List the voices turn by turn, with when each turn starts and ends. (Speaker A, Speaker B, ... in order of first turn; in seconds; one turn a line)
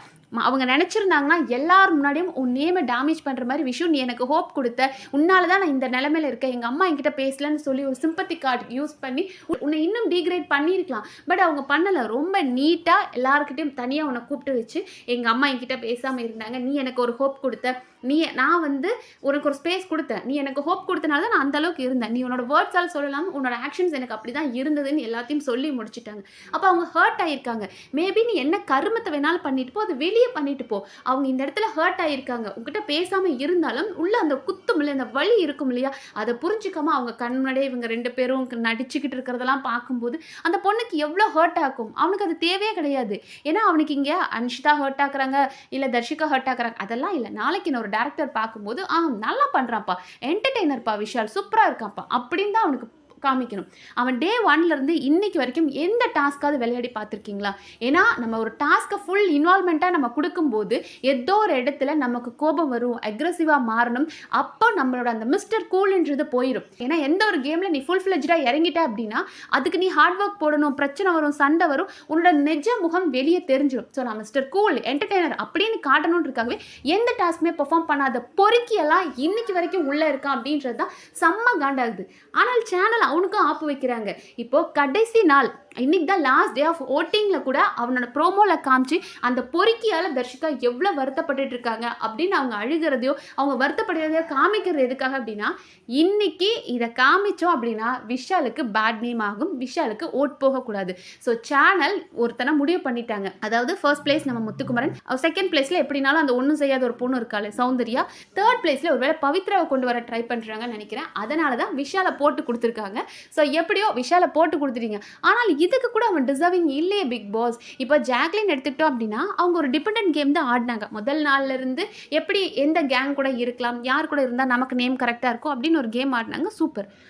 Speaker A: 0.4-126.9